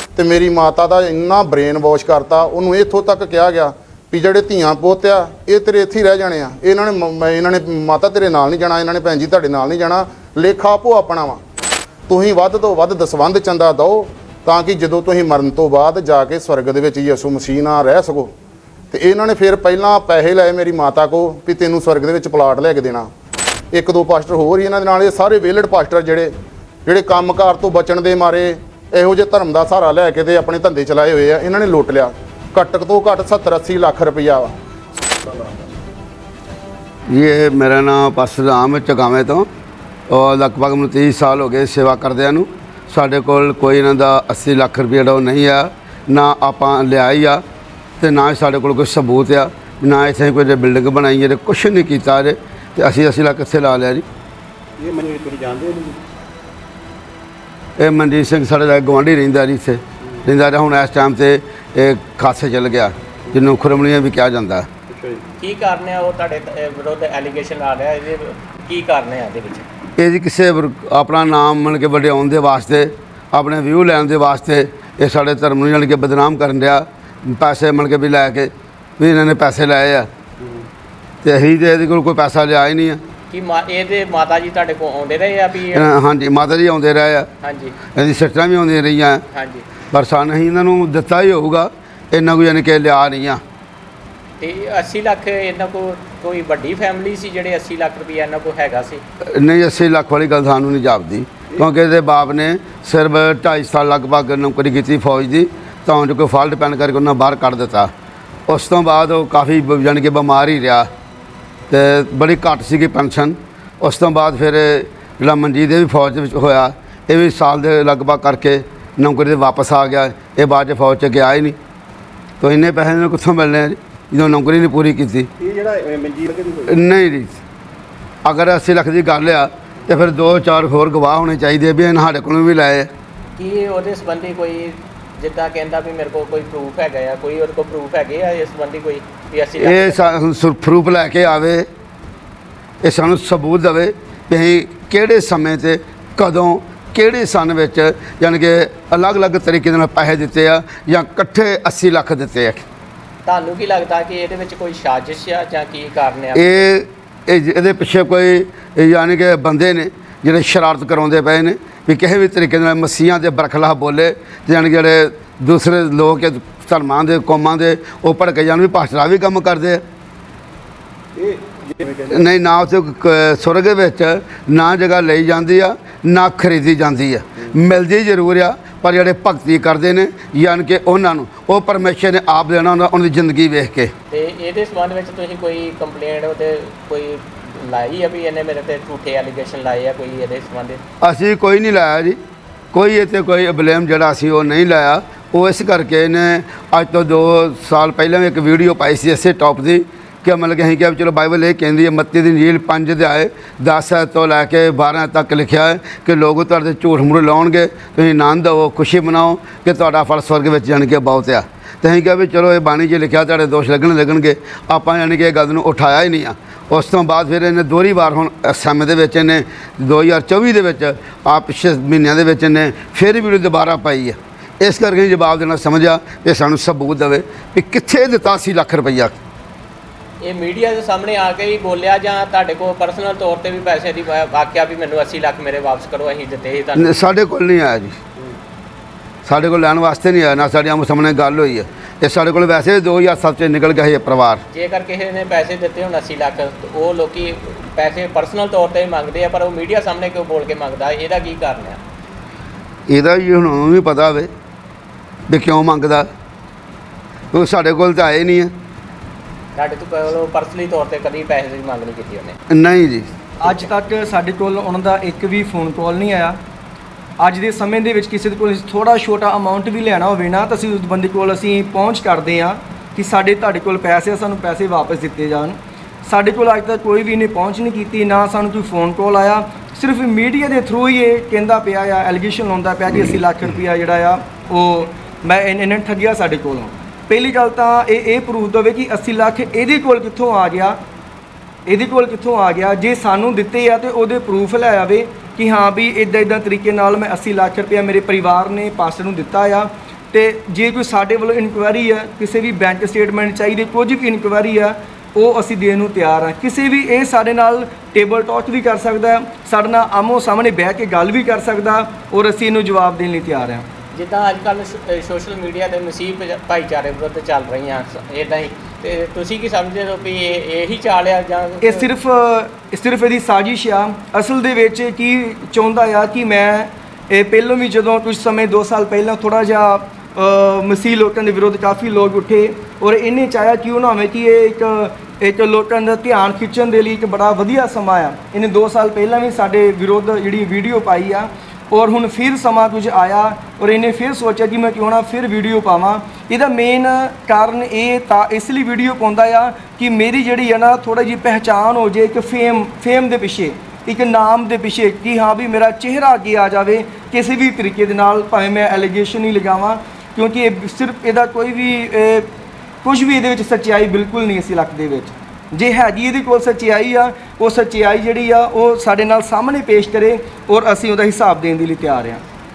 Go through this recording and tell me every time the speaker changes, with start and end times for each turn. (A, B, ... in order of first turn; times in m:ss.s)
0:00.2-0:11.4 A
0:12.1-0:18.3 A
0:18.9-0:23.1 A
0:23.7-0:26.3 A
0:26.9-0:34.5 A
0:37.1-0:39.5 B
0:40.1-0:47.4 B
0:48.0-0:54.0 B
0:54.8-0:56.0 C
0:57.8-1:04.7 B
1:04.9-1:05.2 C
1:05.4-1:09.7 D
1:10.0-1:20.1 B
1:21.2-1:23.0 B
1:23.3-1:25.9 D
1:25.7-1:27.3 B
1:27.4-1:27.8 D
1:28.0-1:29.2 B
1:29.3-1:29.7 D
1:29.9-1:33.4 B
1:34.4-1:39.0 D
1:39.3-1:47.9 B
1:48.5-1:50.9 B
1:51.7-2:01.6 B
2:02.4-2:05.3 B
2:05.4-2:06.8 C
2:06.7-2:07.4 B
2:08.2-2:12.9 B
2:13.4-2:20.1 D
2:19.6-2:21.7 B
2:22.8-2:32.6 B
2:33.2-2:36.7 D
2:36.3-2:49.8 B
2:51.2-2:52.1 C
2:52.1-3:03.9 B
3:04.1-3:10.8 D
3:11.0-3:12.2 B
3:12.7-3:49.2 B
3:50.2-3:57.0 D
3:56.8-3:58.0 B
3:59.2-4:04.4 B
4:04.5-4:11.8 D
4:12.9-4:14.3 B
4:15.3-4:16.1 B
4:17.3-4:18.5 B
4:19.6-4:22.4 D
4:22.5-4:23.1 B
4:23.4-4:26.4 E
4:27.2-4:50.8 E
4:51.6-5:13.7 E
5:13.9-5:21.9 D
5:21.6-6:02.3 E
6:02.8-6:12.2 E